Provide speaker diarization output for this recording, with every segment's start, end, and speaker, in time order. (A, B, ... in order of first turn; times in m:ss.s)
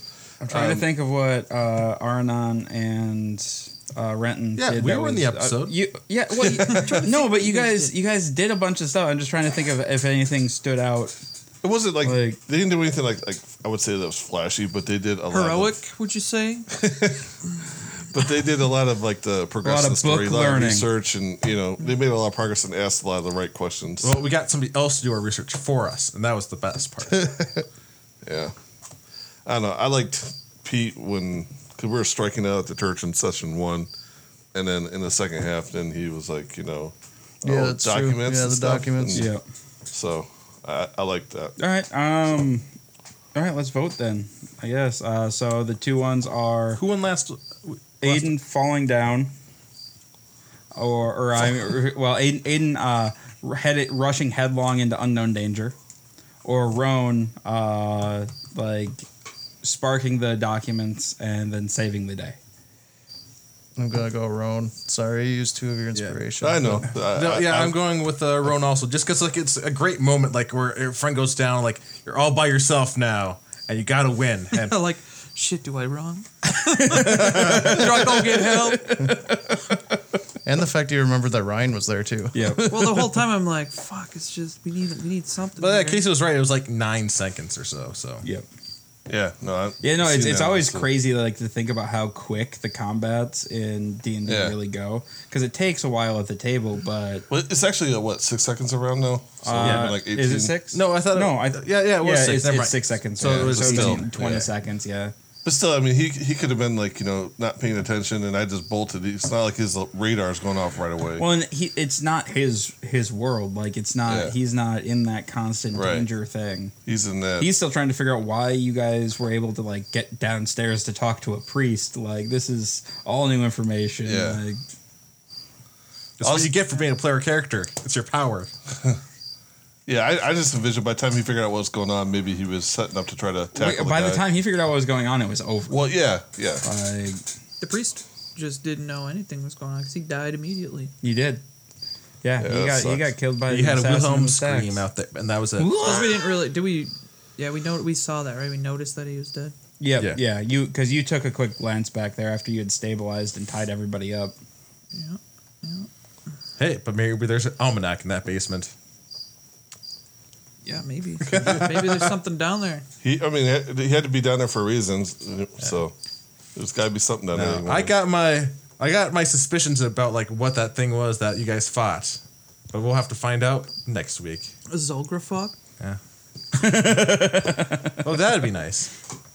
0:00.4-0:11.1 A
0:04.6-0:05.8 B
0:06.4-0:07.9 C
0:11.6-0:15.8 D
0:12.0-0:12.4 A
0:15.3-0:16.7 C
0:16.8-0:17.2 D
0:17.9-0:24.2 D
0:19.6-0:20.9 A
0:24.0-0:27.6 B
0:28.2-0:28.5 D
0:29.4-0:33.9 D
0:34.5-0:39.3 D
0:37.4-0:39.3 E
0:39.1-0:39.4 A
0:39.9-0:41.5 D
0:41.6-0:42.6 A
0:43.3-0:46.8 A
0:46.8-0:48.4 B
0:48.0-0:49.3 A
0:50.7-0:55.7 A
0:56.4-0:59.0 A
0:59.6-1:02.4 A
1:03.8-1:06.8 E
1:05.9-1:06.2 B
1:06.4-1:07.8 D
1:06.8-1:14.8 B
1:14.5-1:19.0 C
1:16.8-1:17.8 A
1:16.9-1:18.0 B
1:18.7-1:19.8 A
1:20.4-1:23.1 E
1:22.3-1:22.7 A
1:22.7-1:26.0 C
1:25.6-1:28.2 B
1:29.1-1:30.9 D
1:29.8-1:37.3 A
1:34.2-1:34.6 D
1:37.3-1:40.6 D
1:39.4-1:45.1 A
1:39.6-1:44.5 B
1:43.2-1:44.5 D
1:45.4-1:51.2 D
1:51.2-1:56.7 A
1:54.0-1:54.3 D
1:55.7-1:56.1 D
1:56.8-1:57.5 D
1:57.4-2:04.6 A
2:04.0-2:04.4 D
2:06.2-2:08.5 B
2:06.2-2:06.6 D
2:09.9-2:14.2 D
2:13.5-2:15.9 A
2:15.7-2:16.6 D
2:16.6-2:17.2 A
2:17.6-2:20.9 C
2:21.0-2:21.4 A
2:22.2-2:24.8 A
2:22.4-2:23.1 D
2:23.4-2:26.0 B
2:25.6-2:26.4 A
2:25.8-2:29.5 C
2:29.8-2:34.3 A
2:34.9-2:35.9 C
2:36.6-2:38.7 B
2:40.6-2:42.8 C
2:41.3-2:41.9 B
2:43.0-2:45.9 D
2:46.5-2:48.0 D
2:47.3-2:52.2 B
2:52.7-2:54.5 B
2:54.7-2:55.5 C
2:56.5-2:58.0 A
2:58.0-2:58.9 B